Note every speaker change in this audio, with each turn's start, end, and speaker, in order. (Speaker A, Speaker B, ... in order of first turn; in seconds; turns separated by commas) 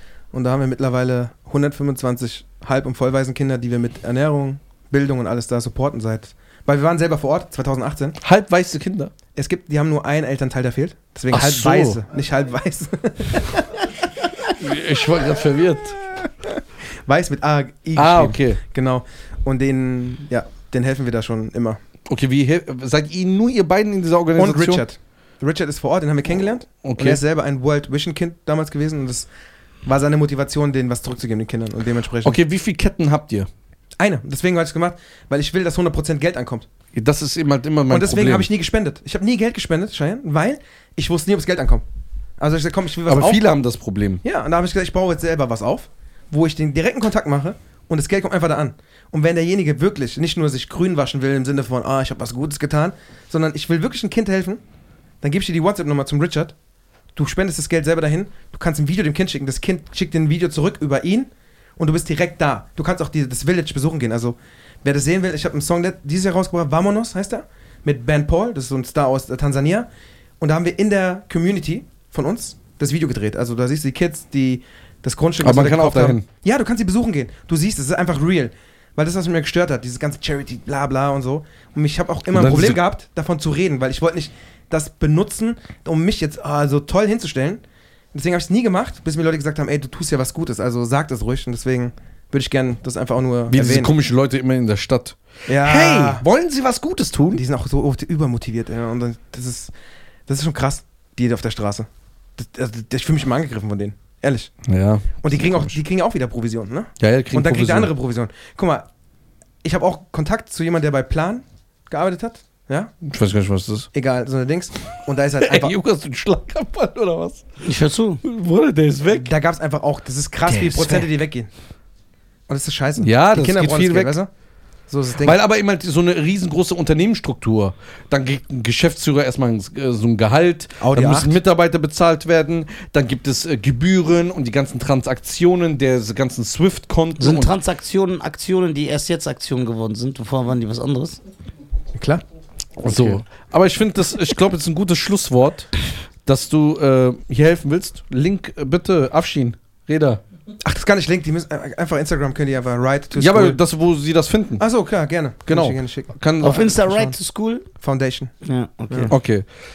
Speaker A: 0.3-8.2, Speaker B: 8.2-9.1, Speaker A: 9.3-14.5, Speaker B: 11.3-12.0, Speaker B: 14.6-16.0, Speaker A: 16.1-21.8, Speaker B: 18.0-18.6, Speaker B: 22.1-24.8, Speaker A: 24.4-29.3, Speaker B: 26.8-27.2, Speaker A: 29.9-32.4, Speaker B: 32.2-33.5, Speaker A: 34.0-36.7, Speaker B: 37.0-38.5, Speaker A: 37.9-41.8, Speaker A: 42.4-43.4, Speaker B: 43.1-44.2, Speaker A: 44.2-54.6, Speaker A: 55.2-56.5, Speaker A: 57.2-69.9, Speaker A: 70.4-93.9, Speaker B: 75.4-76.2, Speaker B: 82.3-82.8, Speaker B: 93.5-97.4, Speaker A: 95.5-96.2, Speaker A: 97.3-99.7, Speaker A: 100.3-104.5, Speaker B: 104.7-105.8, Speaker A: 105.2-108.9, Speaker B: 107.0-107.9, Speaker A: 109.6-112.9, Speaker B: 113.0-113.9, Speaker A: 113.9-115.8, Speaker B: 115.4-117.5, Speaker C: 117.6-118.2, Speaker B: 118.2-119.3, Speaker A: 119.1-121.5, Speaker C: 120.6-121.0, Speaker A: 122.5-124.3, Speaker B: 123.0-124.2, Speaker A: 124.9-125.4, Speaker B: 125.2-137.5, Speaker A: 130.8-131.4, Speaker C: 137.2-141.2, Speaker A: 141.9-142.2, Speaker B: 142.8-150.2, Speaker A: 142.9-143.2, Speaker A: 150.6-153.6, Speaker B: 153.2-154.7, Speaker A: 154.6-156.1, Speaker B: 155.5-156.8, Speaker C: 156.4-157.7, Speaker A: 156.7-157.2, Speaker A: 157.8-158.3, Speaker C: 158.4-159.2, Speaker B: 159.1-159.5